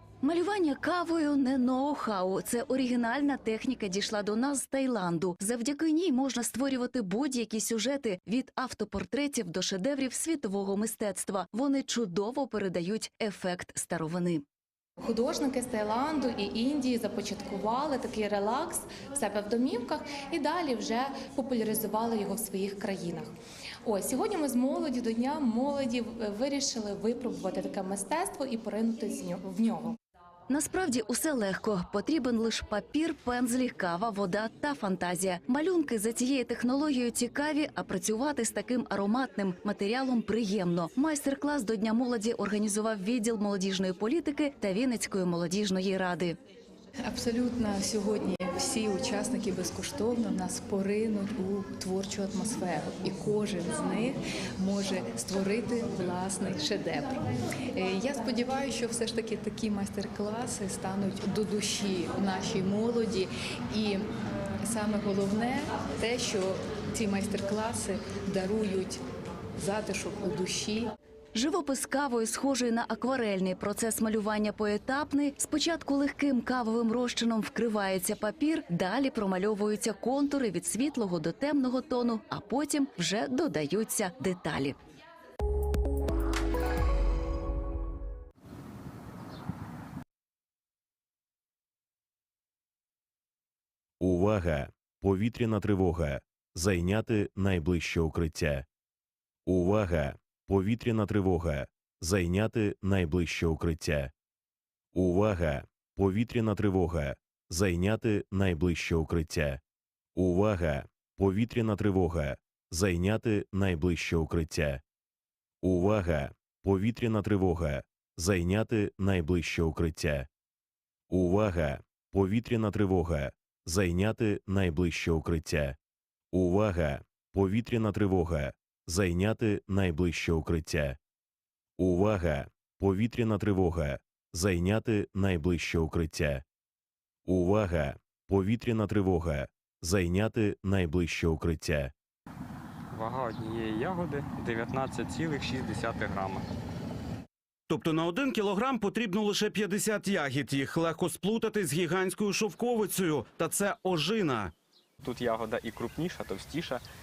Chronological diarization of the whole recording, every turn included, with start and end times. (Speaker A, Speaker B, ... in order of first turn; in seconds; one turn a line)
Speaker A: 0.2-14.4
Speaker B: 15.0-23.3
Speaker B: 23.9-29.9
Speaker A: 30.5-46.4
Speaker C: 47.0-57.2
Speaker C: 57.7-64.1
Speaker C: 64.6-69.0
Speaker C: 69.6-70.8
Speaker A: 71.3-84.8
Speaker D: 94.0-98.6
Speaker D: 99.5-104.1
Speaker D: 104.9-109.6
Speaker D: 110.2-114.8
Speaker D: 115.6-120.3
Speaker D: 121.1-125.8
Speaker D: 126.3-131.0
Speaker D: 131.8-136.4
Speaker D: 137.2-141.9
Speaker E: 142.9-146.4
Speaker F: 147.7-154.5
Speaker E: 155.0-156.8